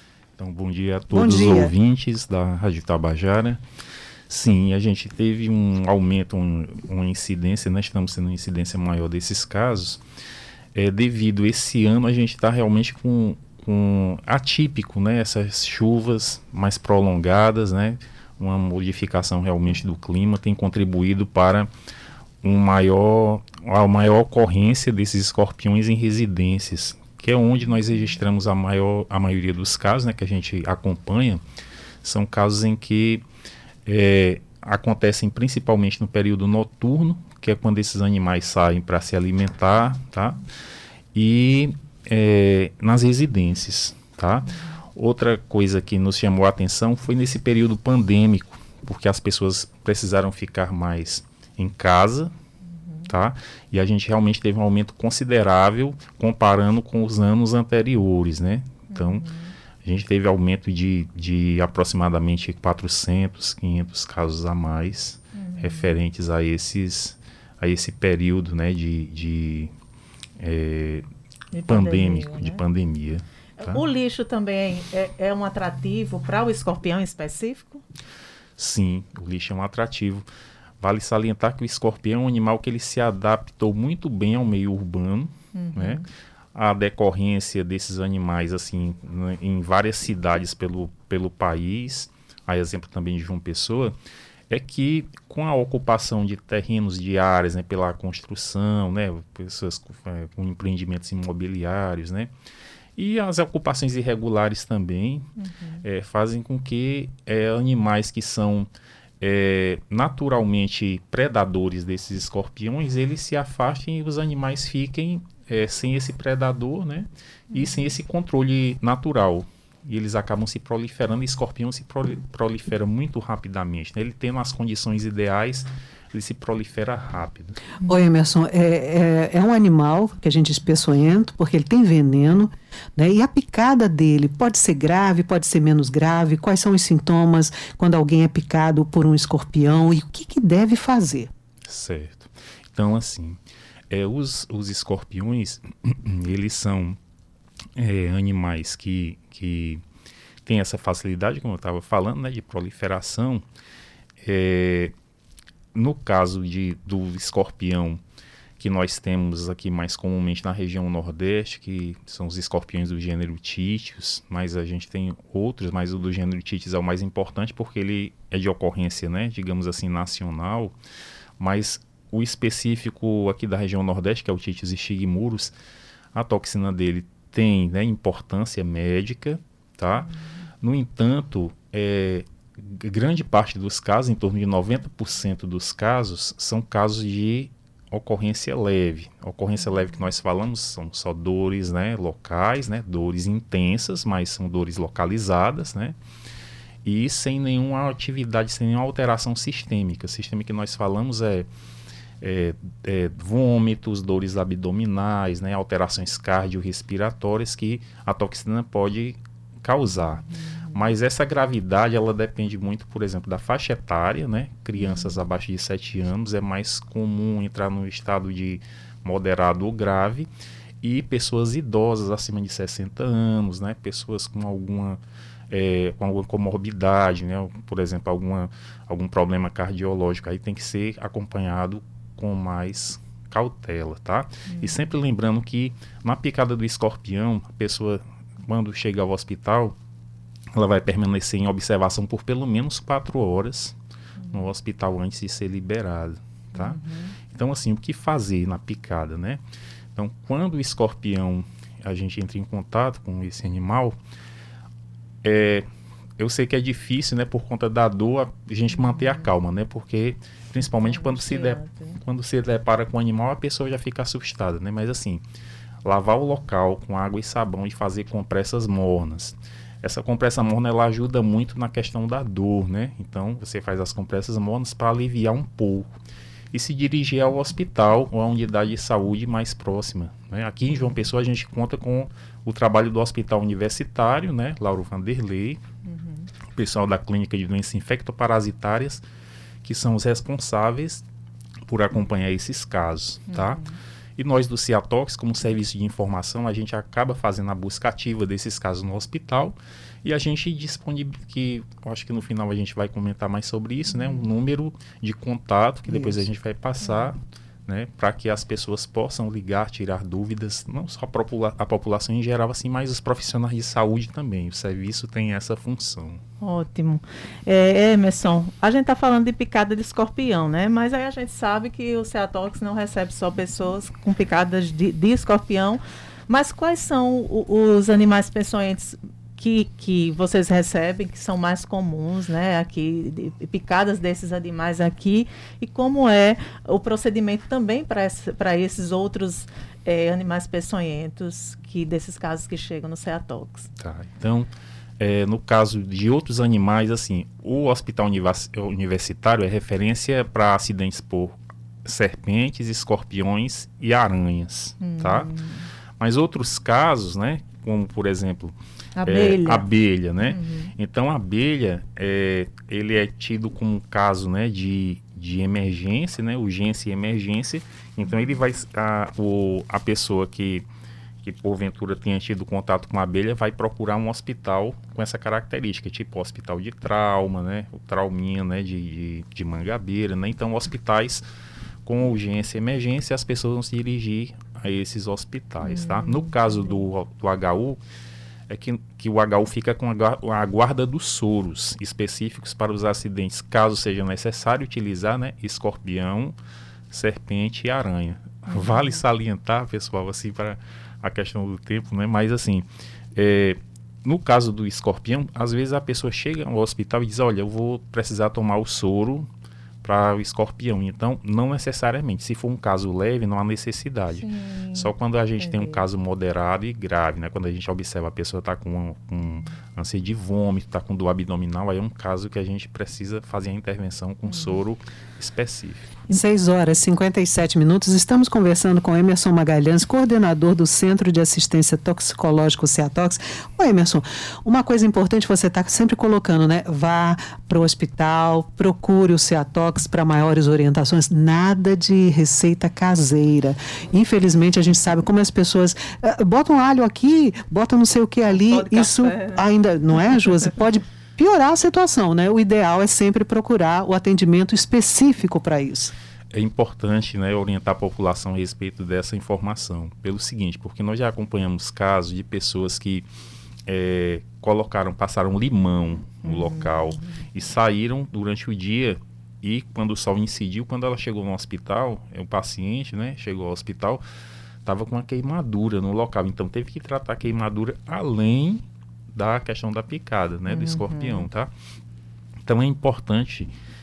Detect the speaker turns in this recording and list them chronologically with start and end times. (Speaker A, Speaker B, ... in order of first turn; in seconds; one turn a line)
Speaker A: 0.4-3.6
Speaker B: 1.1-1.7
Speaker A: 4.3-10.0
Speaker A: 10.7-21.7
Speaker A: 22.4-31.4
Speaker A: 32.0-33.2
Speaker A: 33.9-40.4
Speaker A: 41.1-52.3
Speaker A: 53.1-59.3
Speaker C: 58.9-59.5
Speaker A: 59.8-69.7
Speaker C: 65.4-65.9
Speaker A: 70.4-71.0
Speaker C: 71.5-72.6
Speaker A: 71.7-73.8
Speaker C: 73.6-77.8
Speaker A: 78.6-80.2
Speaker A: 80.8-86.0
Speaker C: 85.5-86.0
Speaker A: 86.5-93.9
Speaker A: 94.5-102.3
Speaker A: 103.0-105.2
Speaker C: 105.4-105.8
Speaker A: 105.8-108.7
Speaker A: 109.2-127.6
Speaker B: 127.8-141.3
Speaker A: 141.7-147.0
Speaker A: 147.8-149.8
Speaker A: 150.4-153.4
Speaker A: 154.2-154.9
Speaker A: 155.7-158.0
Speaker A: 158.6-170.7
Speaker A: 171.4-175.5
Speaker A: 176.1-180.1
Speaker A: 180.6-195.9
Speaker A: 196.8-201.5
Speaker A: 202.2-220.3
Speaker C: 210.3-210.8
Speaker C: 214.8-215.2
Speaker A: 220.8-239.8
Speaker C: 234.5-234.8
Speaker A: 240.5-243.7
Speaker A: 244.3-246.8
Speaker C: 246.5-247.1
Speaker A: 247.3-249.4
Speaker A: 249.9-253.9
Speaker A: 255.2-255.7
Speaker A: 256.2-265.2
Speaker C: 258.8-259.2
Speaker C: 260.8-262.0
Speaker A: 265.8-275.9
Speaker A: 276.5-285.6
Speaker C: 285.8-286.3
Speaker A: 286.5-289.0
Speaker A: 289.6-291.0
Speaker A: 291.7-293.6
Speaker C: 293.3-293.8
Speaker A: 294.2-316.2
Speaker C: 316.4-343.7
Speaker A: 343.8-355.3
Speaker C: 354.8-355.6
Speaker A: 356.0-370.6
Speaker C: 358.9-359.6
Speaker C: 360.2-360.7
Speaker A: 371.2-381.2
Speaker A: 381.8-387.8
Speaker C: 385.6-386.4
Speaker A: 388.5-396.3
Speaker A: 396.9-409.3
Speaker C: 398.5-399.0
Speaker A: 409.8-426.0
Speaker C: 414.1-415.8
Speaker C: 424.3-424.6
Speaker B: 426.1-455.9
Speaker C: 448.5-449.4
Speaker A: 456.3-463.1
Speaker A: 463.7-474.0
Speaker C: 466.2-467.1
Speaker A: 474.6-481.5
Speaker C: 480.5-481.3
Speaker A: 482.4-483.5